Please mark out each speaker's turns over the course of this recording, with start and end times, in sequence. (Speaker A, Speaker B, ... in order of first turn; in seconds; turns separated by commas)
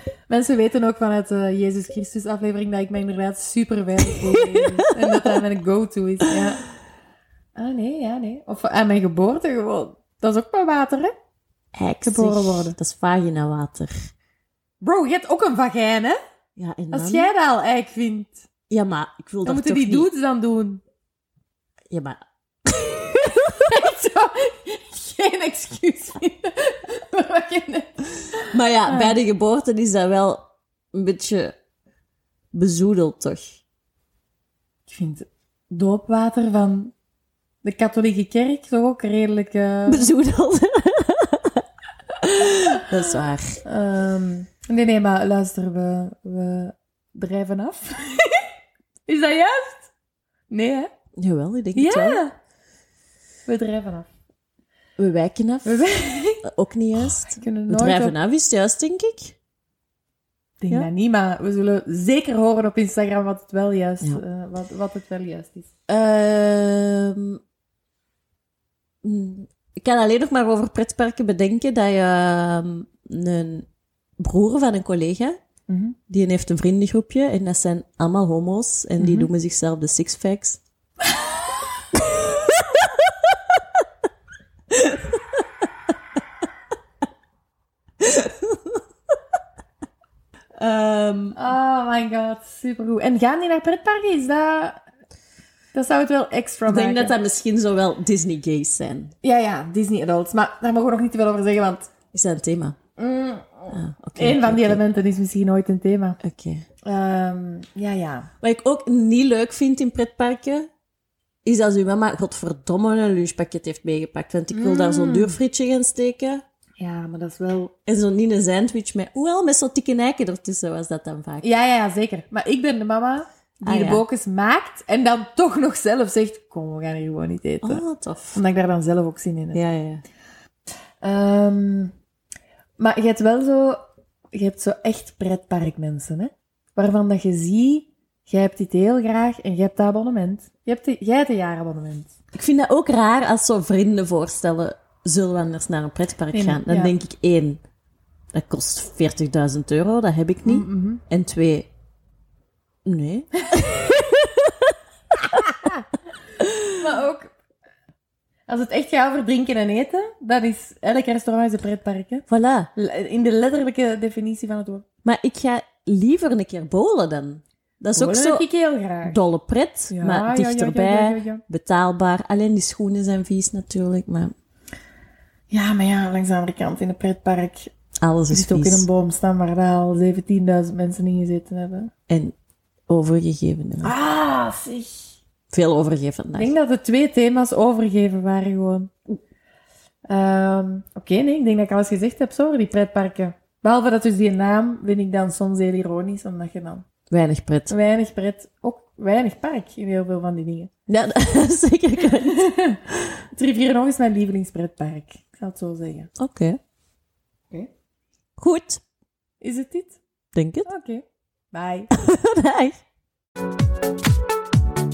Speaker A: 0.3-6.6, Speaker B: 4.0-5.4, Speaker A: 7.5-11.1, Speaker B: 11.8-13.9, Speaker A: 12.0-12.8, Speaker A: 14.8-16.2, Speaker B: 16.6-17.3, Speaker A: 16.9-18.4, Speaker B: 18.7-20.1, Speaker A: 19.4-20.8, Speaker B: 21.9-23.8, Speaker A: 23.3-29.2, Speaker B: 28.5-31.5, Speaker B: 32.5-33.6, Speaker A: 34.9-36.9, Speaker A: 37.6-40.1, Speaker B: 39.9-41.6, Speaker B: 42.2-43.6, Speaker A: 43.6-48.5, Speaker A: 49.1-49.9, Speaker A: 50.5-50.9, Speaker B: 51.2-52.2, Speaker A: 51.7-52.3, Speaker A: 53.5-54.1, Speaker B: 55.0-55.9, Speaker A: 55.6-56.4, Speaker B: 56.4-59.4, Speaker A: 57.1-58.1, Speaker A: 60.6-65.7, Speaker B: 65.9-67.4, Speaker B: 69.0-73.7, Speaker B: 74.2-75.4, Speaker A: 75.7-76.0, Speaker B: 76.1-80.6, Speaker A: 79.0-79.3, Speaker B: 81.9-83.6, Speaker B: 84.7-85.5, Speaker B: 88.0-89.1, Speaker B: 90.6-91.4, Speaker A: 91.3-94.8, Speaker A: 95.7-97.1, Speaker B: 96.7-99.1, Speaker A: 99.2-101.9, Speaker B: 102.1-102.8, Speaker A: 103.0-106.2, Speaker B: 103.7-104.8, Speaker B: 106.2-106.6, Speaker A: 106.8-108.3, Speaker B: 108.4-110.7, Speaker B: 111.4-116.4, Speaker A: 114.5-115.4, Speaker A: 116.8-117.7, Speaker B: 117.8-121.5, Speaker A: 121.4-127.8, Speaker B: 123.6-124.0, Speaker B: 127.6-128.4, Speaker A: 128.3-129.6, Speaker B: 129.5-130.0, Speaker A: 131.0-131.9, Speaker A: 132.8-133.8, Speaker A: 134.3-142.1, Speaker B: 142.3-147.6, Speaker A: 146.3-146.9, Speaker B: 148.3-151.7, Speaker A: 150.4-151.0, Speaker B: 152.8-155.8, Speaker B: 156.4-156.7, Speaker A: 156.7-157.3, Speaker A: 158.5-164.8, Speaker B: 162.3-162.7, Speaker B: 165.0-168.4, Speaker A: 167.9-169.2, Speaker B: 169.1-174.3, Speaker A: 169.9-171.4, Speaker A: 175.5-177.7, Speaker B: 178.0-178.9, Speaker A: 178.3-181.9, Speaker B: 182.1-182.3, Speaker B: 182.9-183.9, Speaker A: 183.8-185.2, Speaker B: 185.5-186.5, Speaker A: 186.3-188.9, Speaker A: 190.1-196.8, Speaker B: 197.1-197.7, Speaker A: 197.7-200.7, Speaker B: 200.9-203.0, Speaker A: 202.1-206.1, Speaker B: 206.2-206.6, Speaker B: 208.4-208.8, Speaker A: 209.4-210.0, Speaker B: 210.3-210.7, Speaker A: 210.7-211.9, Speaker B: 211.9-212.8